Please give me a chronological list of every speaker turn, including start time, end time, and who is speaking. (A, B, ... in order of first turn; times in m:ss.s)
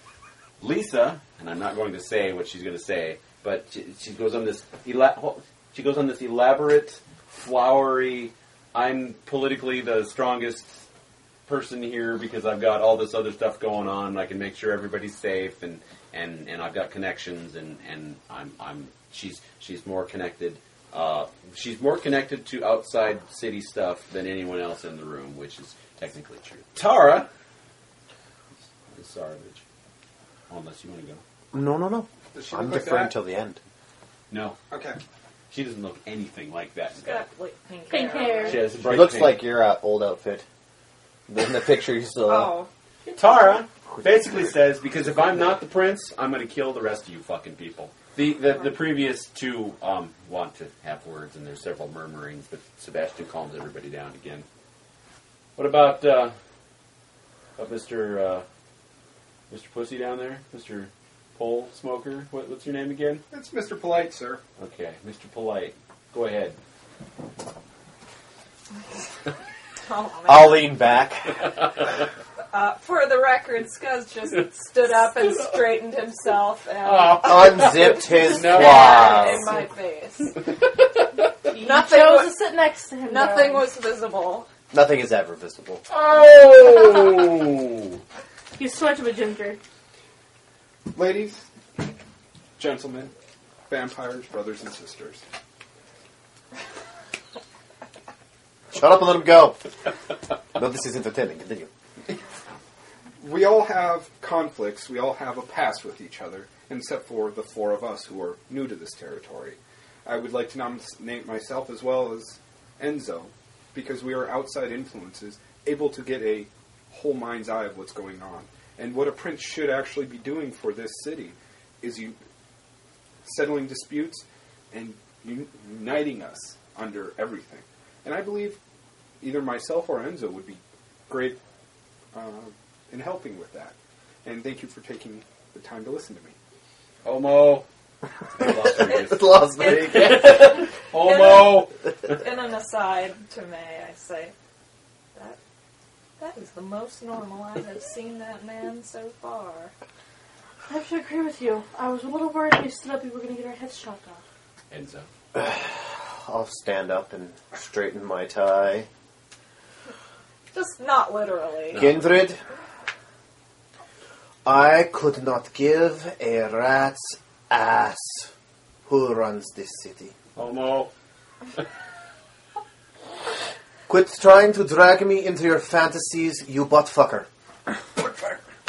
0:00.6-0:10.9 A
0:11.5-0:27.3 A
0:28.9-0:29.6 A
0:30.5-0:31.2 A
0:31.5-0:33.6 B
0:32.3-0:33.2 C
0:34.3-0:34.6 A
0:34.7-0:35.0 C
0:35.5-0:37.2 A
0:37.0-0:38.7 D
0:37.9-0:38.7 E
0:38.5-0:39.4 A
0:38.8-0:40.4 B
0:41.3-0:42.5 B
0:42.2-0:42.7 D
0:43.2-0:54.5 A
0:43.9-0:44.5 B
0:55.6-0:56.3 A
0:57.6-0:58.4 A
0:59.5-1:03.2 A
1:03.3-1:04.4 C
1:04.6-1:06.6 A
1:09.8-1:10.8 D
1:10.3-1:11.7 B
1:12.5-1:20.4 D
1:16.8-1:19.4 A
1:17.1-1:19.6 B
1:21.5-1:22.5 D
1:21.5-1:23.7 E
1:23.0-1:24.5 D
1:24.7-1:25.8 B
1:25.9-1:28.0 A
1:28.6-1:29.6 E
1:30.9-1:31.4 C
1:32.6-1:33.1 C
1:33.7-1:35.2 C
1:38.7-1:39.6 B
1:40.5-1:41.7 B
1:43.2-2:02.2 C
2:03.2-2:08.6 C
2:09.2-2:11.4 C
2:12.1-2:16.4 C
2:17.0-2:17.6 A
2:18.3-2:21.7 A
2:18.4-2:20.5 B
2:18.9-2:24.3 D
2:26.2-2:29.7 D
2:30.7-2:34.2 E
2:34.7-2:35.1 A
2:35.3-2:38.9 B
2:40.5-2:41.9 D
2:41.7-2:42.1 A
2:41.7-2:42.4 B
2:44.4-2:48.3 B
2:48.8-2:50.2 B
2:50.4-2:50.9 A
2:53.9-2:57.3 B
2:58.0-2:58.4 C